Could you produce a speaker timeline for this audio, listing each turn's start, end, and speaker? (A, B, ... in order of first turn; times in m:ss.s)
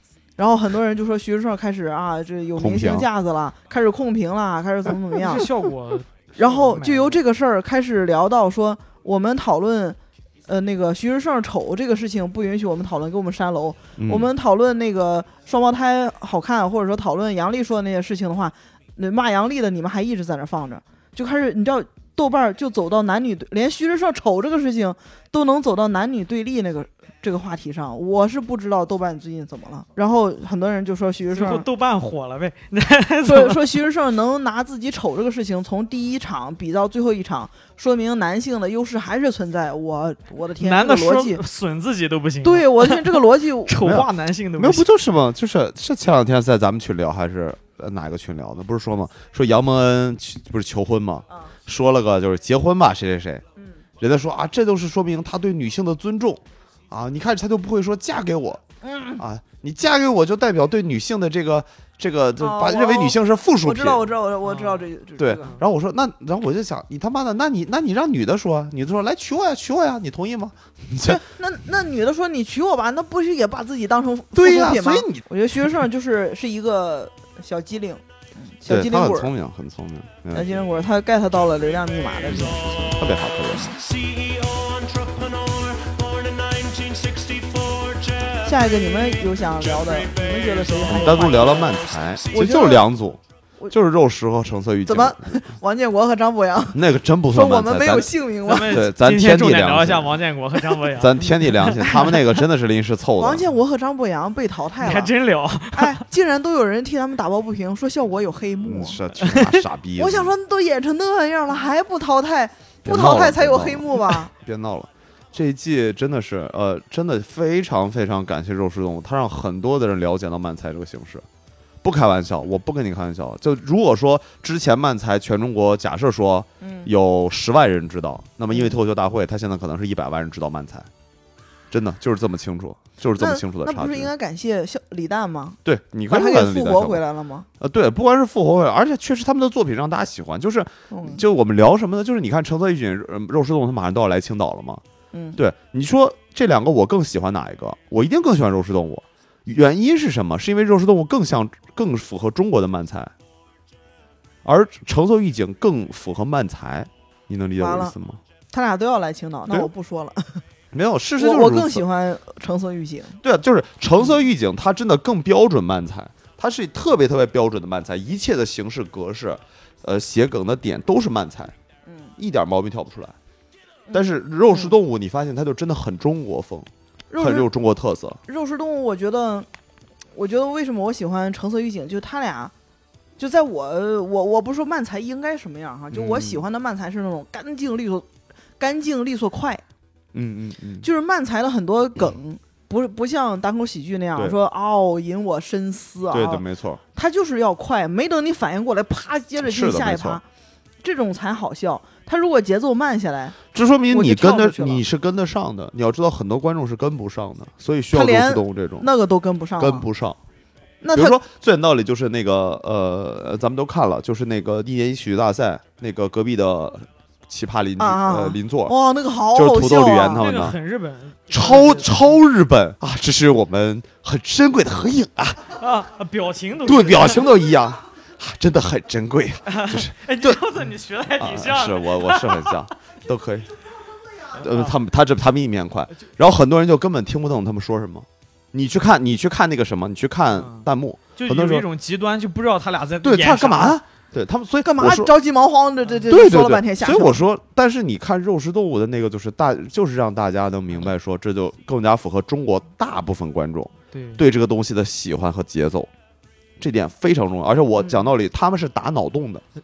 0:00.4-0:05.5 A
0:02.6-0:03.1 B
0:05.1-0:07.2 C
0:06.4-0:31.6 A
0:14.0-0:14.3 B
0:31.3-0:33.8 C
0:33.2-0:41.4 A
0:40.6-0:44.9 C
0:42.4-0:43.8 A
0:43.8-0:53.4 B
0:54.0-0:58.6 B
0:58.8-0:59.2 A
0:59.2-1:04.0 B
1:02.4-1:05.6 A
1:04.4-1:04.8 C
1:05.2-1:11.2 B
1:11.0-1:19.3 A
1:14.3-1:15.7 B
1:18.6-1:20.6 B
1:20.3-1:23.0 A
1:22.3-1:23.8 B
1:23.7-1:28.4 D
1:28.4-1:31.8 A
1:30.3-1:30.7 D
1:30.8-1:35.4 B
1:32.3-1:32.9 A
1:34.8-1:38.8 A
1:36.7-1:38.1 B
1:38.4-1:42.2 C
1:38.6-1:40.2 B
1:40.9-1:43.4 B
1:41.8-1:42.1 A
1:43.2-1:45.1 A
1:44.8-1:46.0 C
1:45.7-1:49.0 A
1:48.6-1:50.3 B
1:49.2-1:49.6 C
1:50.0-1:54.3 A
1:52.8-2:01.2 B
2:01.8-2:10.9 B
2:06.6-2:06.9 A
2:11.7-2:14.1 B
2:13.2-2:15.6 A
2:15.6-2:17.0 B
2:16.1-2:17.5 A
2:17.6-2:24.8 B
2:20.9-2:21.2 A
2:25.1-2:25.4 A
2:25.4-2:33.1 B
2:34.4-2:38.2 B
2:37.6-2:37.9 A
2:38.5-2:40.4 A
2:40.7-2:41.8 B
2:41.2-2:43.2 A
2:43.2-2:51.5 B
2:51.8-2:52.1 A
2:52.2-2:53.1 B
2:53.9-2:54.7 A
2:53.9-2:58.2 B
2:57.1-2:57.5 A
2:58.3-2:59.5 A
3:00.1-3:02.5 A
3:03.2-3:08.1 A
3:05.9-3:06.4 B
3:08.6-3:09.6 A
3:10.1-3:10.9 B
3:10.8-3:16.4 A
3:16.1-3:16.8 B
3:16.9-3:20.2 A
3:19.4-3:20.2 B
3:20.8-3:23.4 A
3:23.5-3:28.9 B
3:23.9-3:24.8 A
3:27.9-3:29.9 A
3:29.6-3:30.2 B
3:30.8-3:31.2 A
3:30.9-3:38.7 B
3:37.8-3:40.2 A
3:39.3-3:40.6 B
3:40.2-3:42.1 C
3:41.3-3:45.6 B
3:45.5-3:47.3 C
3:46.6-3:50.4 B
3:49.5-3:52.7 C
3:51.2-3:53.5 B
3:54.2-4:01.7 B
3:54.4-3:54.7 C
4:00.4-4:03.8 C
4:03.0-4:05.1 B
4:04.6-4:07.2 A
4:06.1-4:15.9 B
4:13.9-4:14.2 C
4:16.6-4:19.4 B